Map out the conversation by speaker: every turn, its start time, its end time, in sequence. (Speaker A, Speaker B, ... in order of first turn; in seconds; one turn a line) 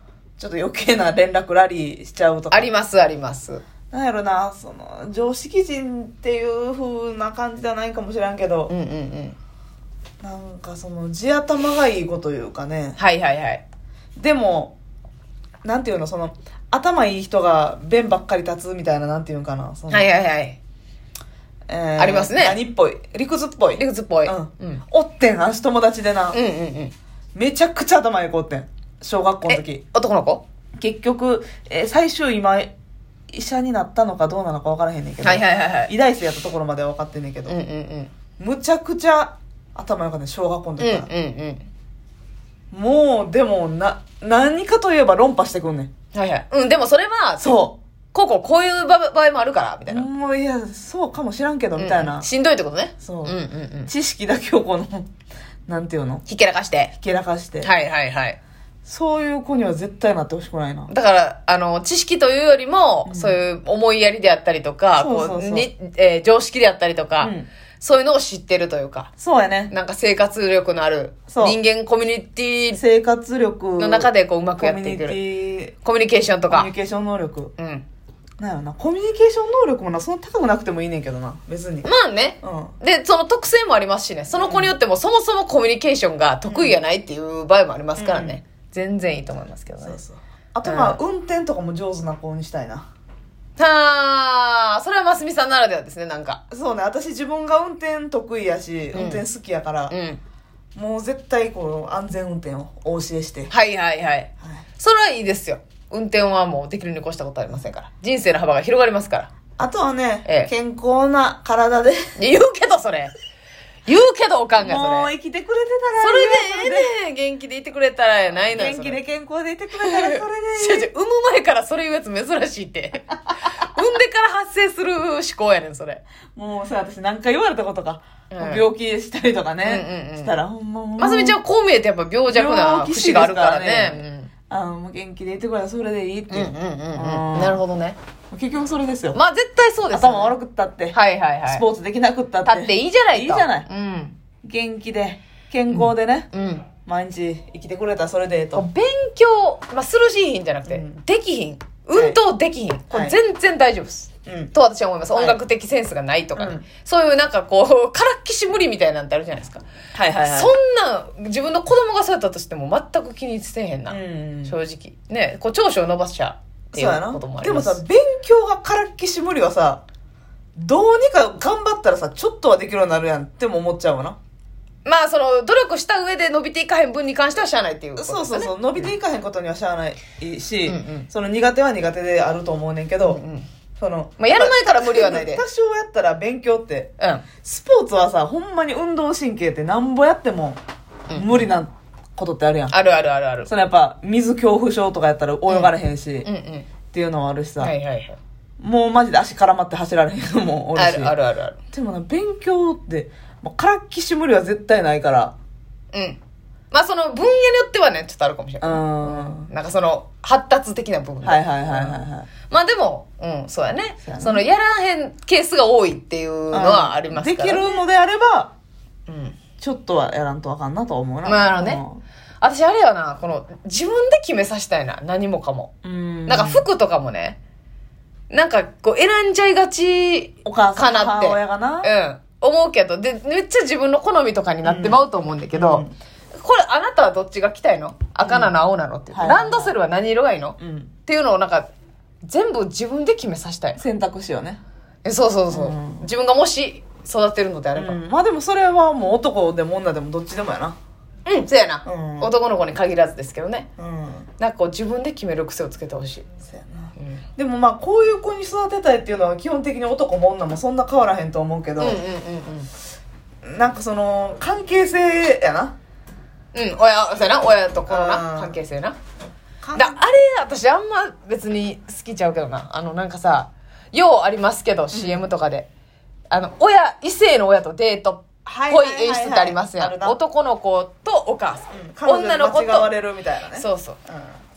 Speaker A: 0.4-2.7
Speaker B: 2.5-3.6
Speaker A: 3.9-8.7
Speaker B: 8.7-9.4
Speaker A: 10.2-13.0
Speaker B: 13.0-13.6
Speaker A: 14.2-14.8
Speaker A: 15.6-20.1
Speaker B: 19.9-20.6
Speaker A: 21.7-26.4
Speaker B: 22.0-22.6
Speaker B: 23.8-24.8
Speaker B: 26.3-26.9
Speaker A: 27.3-29.8
Speaker B: 29.5-30.4
Speaker A: 30.8-32.7
Speaker A: 33.3-37.6
Speaker B: 35.2-35.9
Speaker B: 37.5-38.1
Speaker A: 38.4-41.1
Speaker B: 40.8-41.7
Speaker A: 42.7-45.9
Speaker B: 46.1-50.1
Speaker A: 47.4-47.8
Speaker A: 49.9-52.3
Speaker B: 51.8-53.9
Speaker A: 53.0-55.1
Speaker A: 55.7-56.2
Speaker B: 56.2-56.9
Speaker A: 57.0-57.7
Speaker B: 57.6-58.4
Speaker A: 58.9-60.9
Speaker B: 60.9-69.1
Speaker A: 63.0-63.4
Speaker A: 65.0-65.7
Speaker A: 67.2-67.5
Speaker A: 69.2-69.7
Speaker B: 69.7-72.8
Speaker A: 71.3-71.6
Speaker A: 72.7-75.7
Speaker B: 73.8-75.2
Speaker B: 75.8-76.7
Speaker A: 76.5-77.5
Speaker B: 77.6-77.8
Speaker A: 78.4-81.9
Speaker B: 81.8-90.0
Speaker A: 82.4-82.7
Speaker A: 84.3-84.7
Speaker A: 86.4-86.8
Speaker A: 88.0-88.4
Speaker A: 89.8-92.9
Speaker B: 90.6-91.0
Speaker B: 93.6-96.4
Speaker A: 96.5-99.9
Speaker B: 98.9-99.2
Speaker B: 99.9-100.2
Speaker A: 100.7-103.5
Speaker B: 103.5-109.3
Speaker A: 109.6-112.1
Speaker B: 110.2-110.5
Speaker B: 112.2-113.1
Speaker B: 113.8-115.1
Speaker A: 114.6-116.9
Speaker B: 116.0-119.0
Speaker A: 118.5-120.9
Speaker B: 119.8-126.0
Speaker A: 126.3-131.4
Speaker B: 128.3-128.7
Speaker B: 129.6-130.3
Speaker B: 131.0-134.3
Speaker A: 132.3-137.6
Speaker B: 136.3-138.0
Speaker A: 138.3-139.2
Speaker B: 139.1-140.3
Speaker A: 139.9-143.7
Speaker B: 140.9-141.6
Speaker B: 142.4-144.2
Speaker A: 144.4-146.3
Speaker B: 145.7-146.7
Speaker A: 146.8-148.7
Speaker B: 148.5-159.6
Speaker A: 150.7-151.0
Speaker A: 151.9-152.2
Speaker A: 152.9-153.2
Speaker A: 154.2-154.5
Speaker A: 155.1-155.4
Speaker A: 156.3-156.7
Speaker A: 159.9-160.5
Speaker B: 160.2-167.8
Speaker A: 163.9-164.6
Speaker A: 166.7-169.8
Speaker A: 170.6-174.2
Speaker B: 174.8-178.9
Speaker A: 178.0-183.2
Speaker B: 180.7-181.1
Speaker B: 183.0-183.5
Speaker A: 183.8-190.6
Speaker B: 184.2-185.4
Speaker B: 187.0-187.2
Speaker B: 191.1-191.5
Speaker A: 191.1-192.8
Speaker B: 192.7-193.5
Speaker A: 193.4-196.3
Speaker B: 195.5-195.7
Speaker B: 196.2-196.7
Speaker A: 196.9-197.8
Speaker B: 197.6-198.2
Speaker A: 198.6-201.1
Speaker B: 200.7-201.6
Speaker A: 201.7-205.3
Speaker B: 205.9-206.2
Speaker B: 206.7-217.6
Speaker A: 208.6-209.5
Speaker A: 211.2-212.3
Speaker A: 214.0-214.5
Speaker A: 216.5-218.5
Speaker B: 219.1-219.4
Speaker A: 219.6-222.0
Speaker B: 221.2-221.8
Speaker B: 222.4-225.7
Speaker A: 225.8-226.7
Speaker B: 226.3-227.4
Speaker B: 228.3-235.8
Speaker A: 230.4-231.9
Speaker A: 234.6-235.0
Speaker A: 235.5-235.9
Speaker B: 236.4-241.7
Speaker A: 238.2-238.5
Speaker A: 239.1-239.8
Speaker A: 240.6-240.9
Speaker B: 242.2-243.8
Speaker A: 243.8-244.6
Speaker B: 245.0-248.0
Speaker A: 245.5-246.1
Speaker A: 247.7-250.8
Speaker B: 251.2-253.7
Speaker A: 251.8-252.3
Speaker A: 253.8-254.3
Speaker B: 254.4-256.2
Speaker A: 256.4-262.0
Speaker B: 257.0-257.2
Speaker B: 261.8-262.7
Speaker A: 263.4-265.8
Speaker B: 266.5-268.9
Speaker A: 267.9-268.6
Speaker A: 269.6-270.0
Speaker B: 269.7-275.7
Speaker A: 274.9-275.3
Speaker B: 276.3-282.9
Speaker A: 278.4-280.2
Speaker A: 281.7-284.4
Speaker B: 283.5-284.0